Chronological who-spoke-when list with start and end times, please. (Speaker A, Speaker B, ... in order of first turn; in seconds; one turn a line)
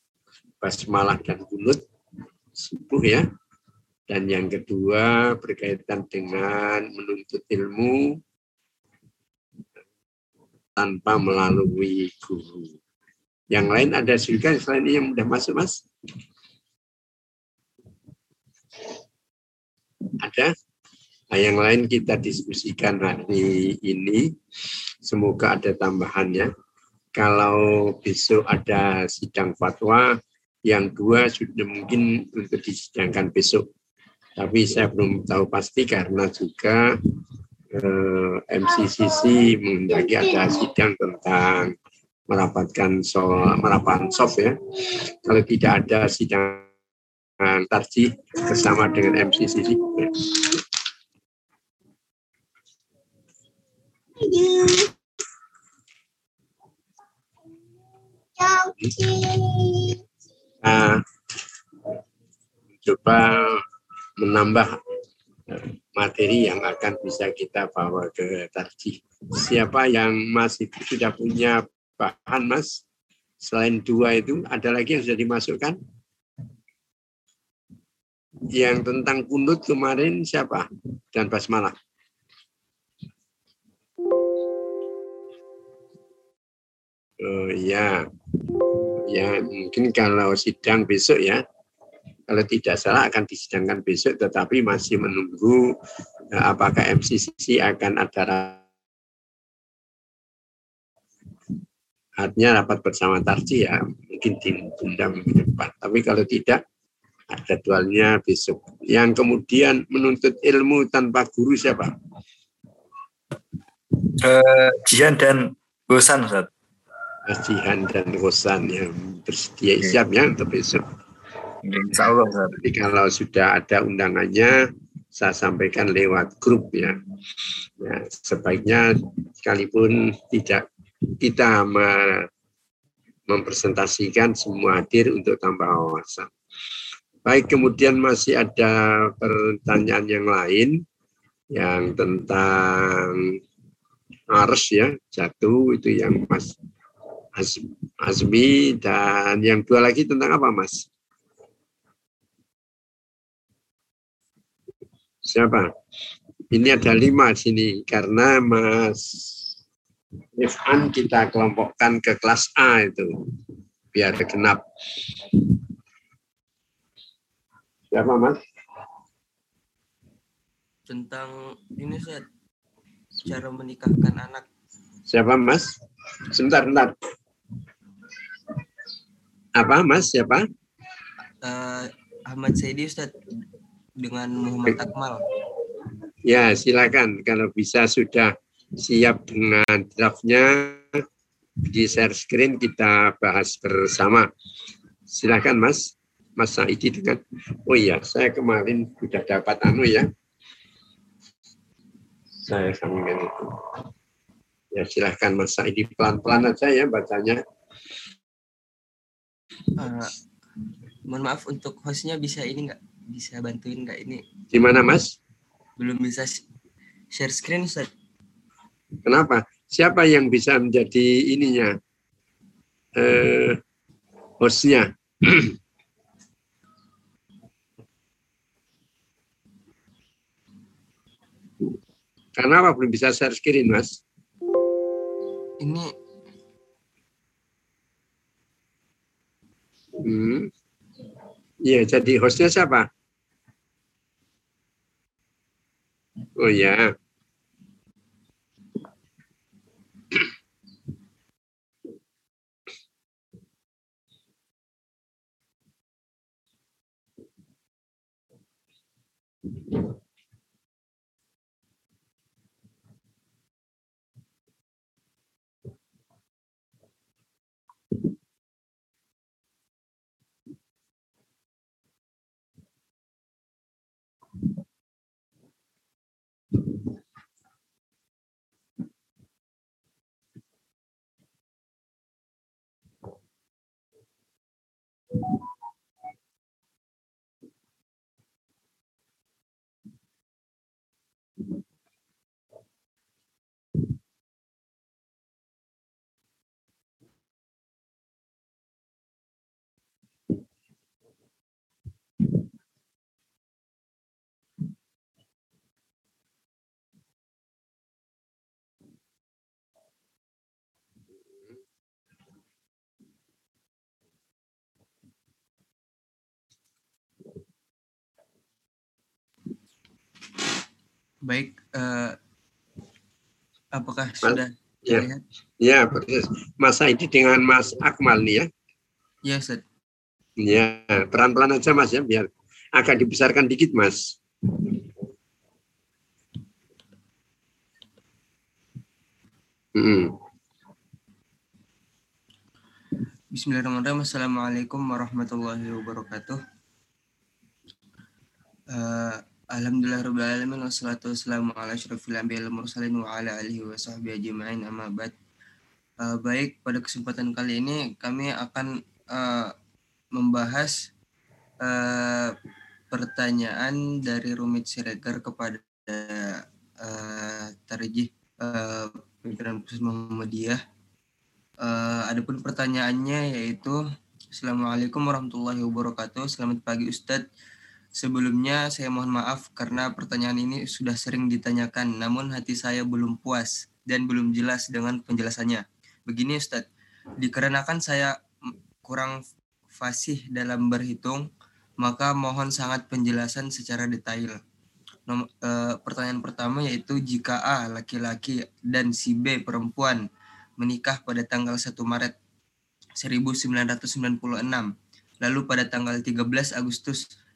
Speaker A: 0.6-1.8
Speaker A: 2.6-3.3
Speaker A: 4.1-8.2
Speaker A: 10.8-12.7
Speaker A: 13.5-15.8
Speaker A: 20.2-20.5
Speaker A: 21.3-24.3
Speaker A: 25.1-26.5
Speaker A: 27.2-30.1
Speaker A: 30.7-33.6
Speaker A: 34.4-36.9
Speaker A: 37.7-41.7
Speaker A: 42.3-44.6
Speaker A: 45.1-46.7
Speaker A: 47.4-50.5
Speaker A: 54.4-54.8
Speaker A: 58.5-59.8
Speaker A: 60.6-61.0
Speaker A: 62.8-63.6
Speaker A: 64.2-64.8
Speaker A: 65.5-72.8
Speaker A: 73.4-75.8
Speaker A: 78.5-81.8
Speaker A: 87.2-88.0
Speaker A: 89.1-91.4
Speaker A: 92.3-95.7
Speaker A: 96.3-98.6
Speaker A: 102.2-106.6
Speaker A: 107.3-111.9
Speaker B: 114.2-116.5
Speaker A: 117.3-120.8
Speaker B: 121.6-122.6
Speaker A: 122.6-124.6
Speaker A: 125.2-127.0
Speaker A: 127.8-130.7
Speaker A: 131.2-132.3
Speaker A: 133.3-136.3
Speaker A: 137.2-140.8
Speaker A: 141.5-143.3
Speaker A: 144.3-146.6
Speaker A: 147.3-150.9
Speaker A: 155.2-155.7
Speaker A: 156.5-159.4
Speaker A: 160.4-163.1
Speaker A: 163.9-164.6
Speaker A: 167.9-168.4
Speaker C: 170.9-172.3
Speaker C: 173.2-174.5
Speaker A: 175.1-175.7
Speaker A: 176.3-176.9
Speaker A: 179.6-180.5
Speaker C: 181.4-183.1
Speaker C: 184.0-185.2
Speaker A: 186.2-191.0
Speaker A: 191.7-194.3
Speaker A: 195.1-200.1
Speaker A: 202.4-203.5
Speaker A: 204.7-207.4
Speaker C: 209.8-210.1
Speaker C: 211.1-214.2
Speaker A: 214.5-215.2
Speaker C: 215.8-216.4
Speaker C: 217.1-217.9
Speaker A: 219.1-221.8
Speaker A: 223.0-223.6
Speaker A: 224.4-225.5
Speaker A: 232.4-234.0
Speaker C: 235.6-235.9
Speaker A: 240.0-240.5
Speaker A: 241.7-242.9
Speaker A: 246.4-246.9
Speaker C: 321.2-322.2
Speaker C: 323.7-325.2
Speaker A: 324.2-325.1
Speaker A: 325.6-328.5
Speaker C: 329.2-329.6
Speaker A: 330.4-334.7
Speaker A: 339.8-340.1
Speaker C: 343.3-346.4
Speaker C: 348.7-355.1
Speaker C: 356.0-359.6
Speaker C: 360.1-360.9
Speaker C: 361.6-362.4
Speaker C: 362.9-370.6
Speaker C: 371.6-373.8
Speaker C: 374.3-377.2
Speaker C: 378.0-386.7
Speaker C: 387.2-388.2
Speaker C: 388.8-389.2
Speaker C: 389.8-391.3
Speaker C: 391.8-394.4
Speaker C: 395.1-400.1
Speaker C: 400.6-402.2
Speaker C: 403.0-407.1